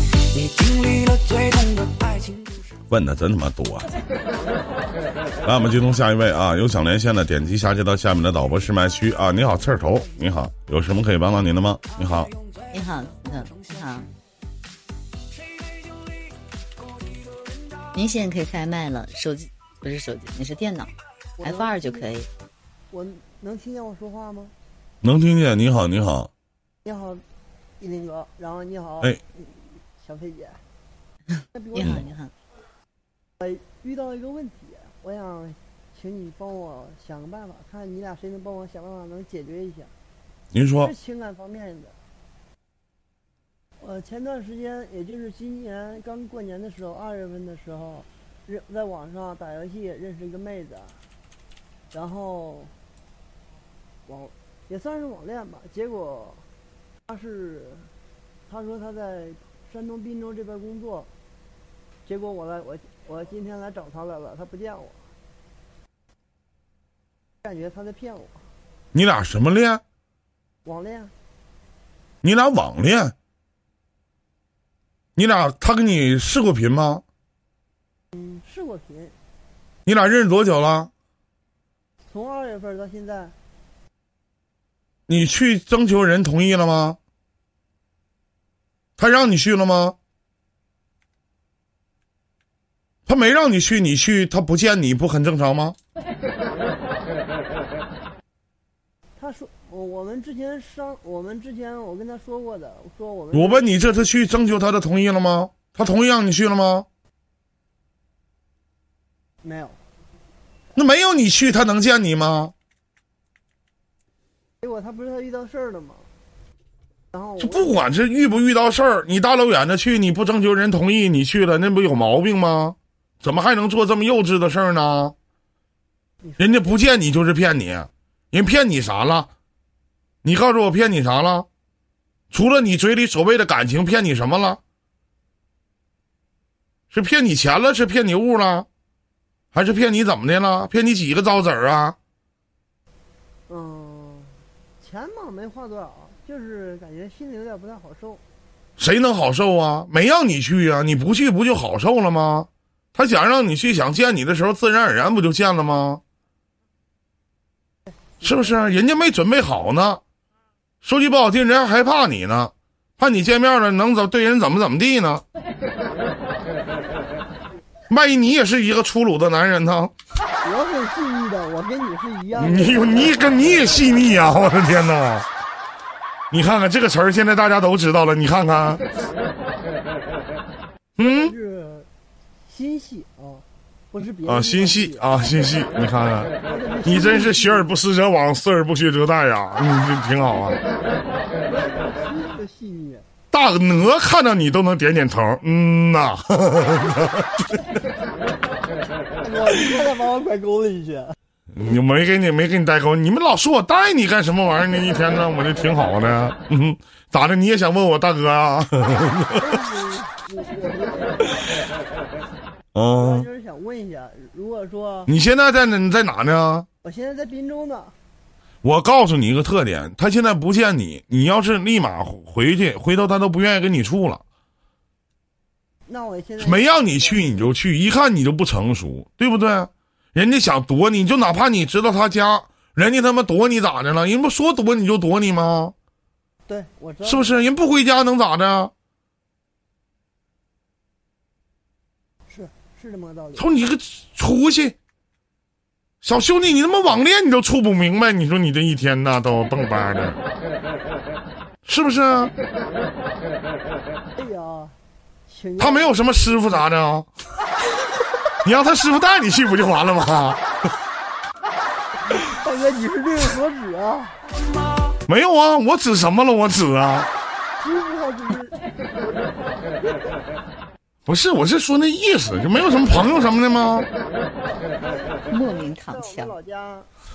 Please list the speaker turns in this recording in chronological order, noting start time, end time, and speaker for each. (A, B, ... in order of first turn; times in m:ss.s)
0:00.3-0:02.8 A
0:02.9-0:04.0 B
0:05.4-0:12.3 B
0:11.9-0:14.1 A
0:12.7-0:14.1 C
0:15.4-0:16.2 A
0:16.8-0:17.6 A
0:17.9-0:22.3 C
0:21.4-0:22.1 D
0:22.9-0:24.5 D
0:25.0-0:26.3 B
0:26.8-0:27.2 D
0:27.8-0:30.6 D
0:31.5-0:32.1 D
0:31.7-0:32.3 C
0:31.8-0:32.0 B
0:33.4-0:39.9 D
0:40.5-0:40.9 B
0:40.8-0:42.0 D
0:43.8-0:51.0 D
0:51.9-0:52.7 D
0:54.0-0:56.5 D
0:57.1-0:57.9 D
0:58.5-1:01.1 D
1:02.0-1:05.1 D
1:07.4-1:08.4 D
1:08.9-1:09.8 B
1:10.6-1:11.1 D
1:12.2-1:13.1 B
1:15.2-1:17.0 B
1:18.1-1:19.2 D
1:19.9-1:20.9 B
1:22.1-1:23.4 D
1:25.1-1:27.0 B
1:29.0-1:30.0 B
1:33.1-1:35.8 B
1:39.2-1:44.0 D
1:43.3-1:46.9 B
1:49.4-1:49.8 D
1:50.8-1:52.5 B
1:54.6-1:56.1 D
1:57.1-1:57.7 D
1:57.4-2:05.1 B
2:06.2-2:06.6 D
2:06.4-2:09.3 B
2:10.2-2:11.5 B
2:12.3-2:14.6 B
2:16.9-2:18.7 B
2:19.5-2:22.0 B
2:23.5-2:28.2 D
2:28.8-2:36.0 B
2:38.2-2:40.0 B
2:40.8-2:45.2 B
2:47.9-2:49.9 B
2:50.4-2:53.4 D
2:52.4-2:55.2 B
2:56.3-2:58.8 B
3:01.0-3:01.3 B
3:01.0-3:01.9 D
3:02.5-3:05.1 D
3:04.2-3:06.3 B
3:06.4-3:07.7 D
3:06.8-3:10.6 B
3:11.4-3:13.0 D
3:13.3-3:17.6 B
3:19.2-3:21.2 D
3:21.5-3:29.5 B
3:29.4-3:31.6 D
3:32.7-3:33.3 B
3:32.9-3:35.1 D
3:35.1-3:36.7 B
3:36.8-3:37.9 D
3:38.6-3:44.2 B
3:45.9-3:47.5 D
3:46.4-3:55.7 B
3:56.5-3:57.4 D
3:57.0-3:58.7 B
4:02.3-4:03.5 D
4:03.4-4:04.8 B
4:06.0-4:10.2 B
4:11.6-4:12.3 B
4:14.2-4:16.3 D
4:15.6-4:17.1 B
4:18.4-4:20.4 B
4:22.1-4:24.2 D
4:25.1-4:27.1 B
4:27.6-4:30.2 D
4:31.1-4:33.9 B
4:34.5-4:36.9 D
4:35.3-4:36.3 C